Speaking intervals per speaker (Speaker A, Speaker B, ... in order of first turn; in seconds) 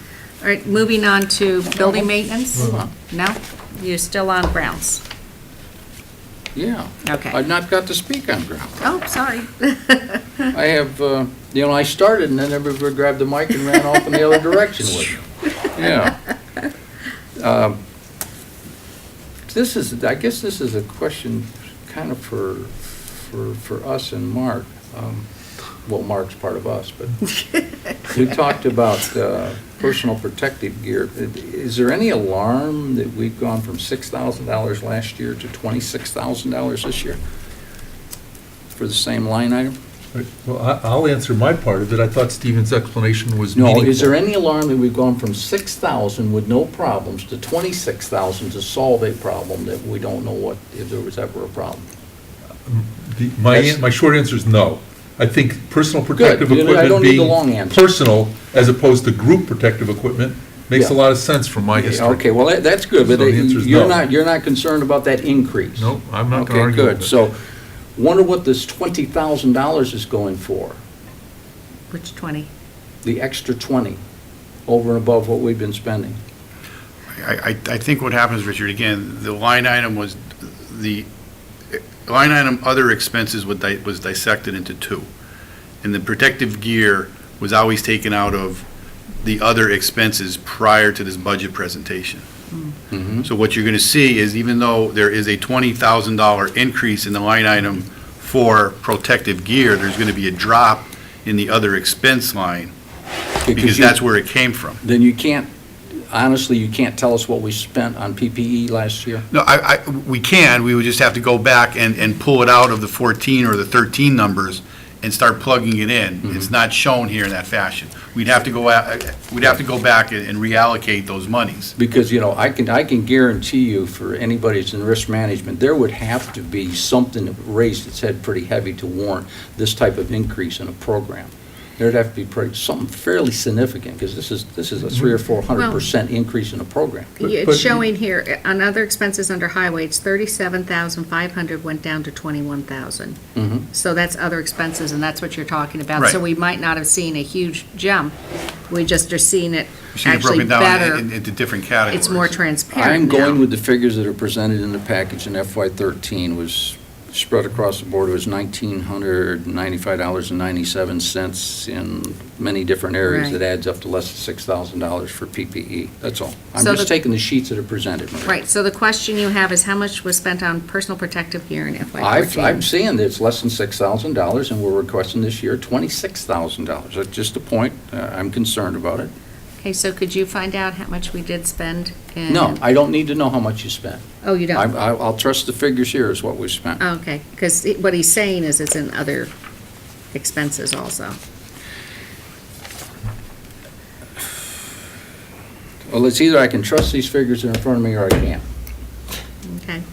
Speaker A: 0.4-5.0, 7.0-7.4, 8.8-10.4, 71.9-72.5, 135.5-135.8, 137.2-143.2, 143.7-148.1, 148.7-151.1, 151.9-153.4, 163.0-163.4, 166.6-166.9, 168.2-172.7, 179.6-182.6, 184.2-184.7, 186.8-189.3, 190.1-191.1, 199.4-199.8
Speaker B: 1.9-2.9, 6.5-8.8, 10.5-16.2, 17.4-17.8, 19.5-25.2, 25.8-27.2, 28.0-37.2, 38.7-39.8, 43.5-51.8, 53.5-53.8, 56.1-57.8, 60.7-61.0, 61.7-67.3, 68.0-70.8, 73.0-74.0, 74.7-76.2, 92.9-93.3, 103.5-104.0, 104.8-105.5, 106.1-109.2, 121.8-137.2, 143.3-143.6, 152.7-168.4, 172.0-179.1, 182.3-186.8, 195.9-198.4
Speaker C: 40.1-44.1, 52.6-62.2, 63.0-64.0, 65.8-67.2, 137.2-137.8
Speaker D: 77.2-81.1, 81.7-85.1, 85.8-88.6, 89.2-92.2, 93.2-102.7, 103.5-104.8, 109.3-121.7, 149.9-152.4